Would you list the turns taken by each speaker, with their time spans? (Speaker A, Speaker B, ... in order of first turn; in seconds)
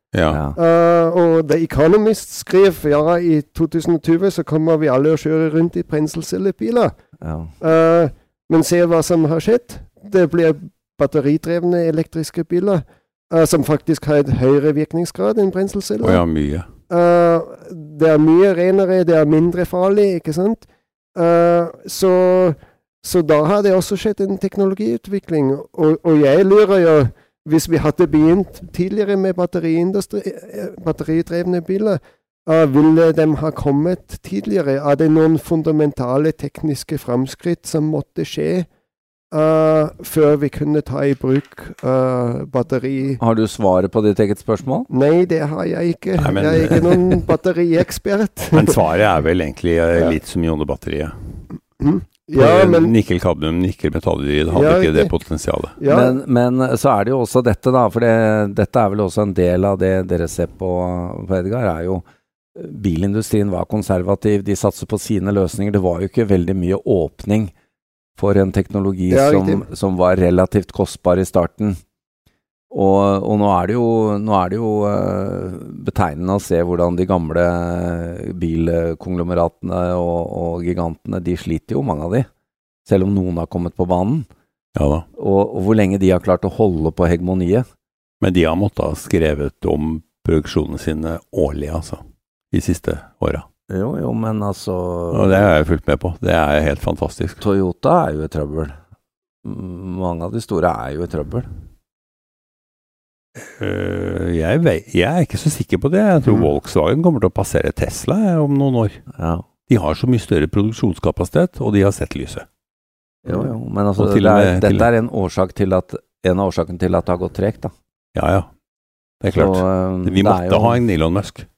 Speaker A: 0.1-0.4, 16.0-16.7, 46.2-47.1, 48.5-51.1, 52.3-55.7, 84.8-85.0, 88.2-92.0, 92.5-93.5, 95.1-97.4, 103.4-109.0, 109.7-112.5, 114.0-114.9, 118.2-118.5, 119.2-121.5
Speaker B: 0.3-0.6, 7.2-7.6, 43.2-44.9, 55.9-62.0, 62.6-67.5, 68.2-71.8, 72.7-82.3, 82.9-84.3, 85.2-87.7, 93.7-95.5, 97.4-98.8, 99.4-101.5, 106.2-106.5, 109.2-109.5, 113.2-117.7, 119.3-120.8
Speaker C: 0.6-6.9, 7.6-16.2, 16.9-38.7, 39.3-43.2, 44.9-48.8, 51.8-52.9, 54.5-55.1, 55.8-56.2, 69.1-69.7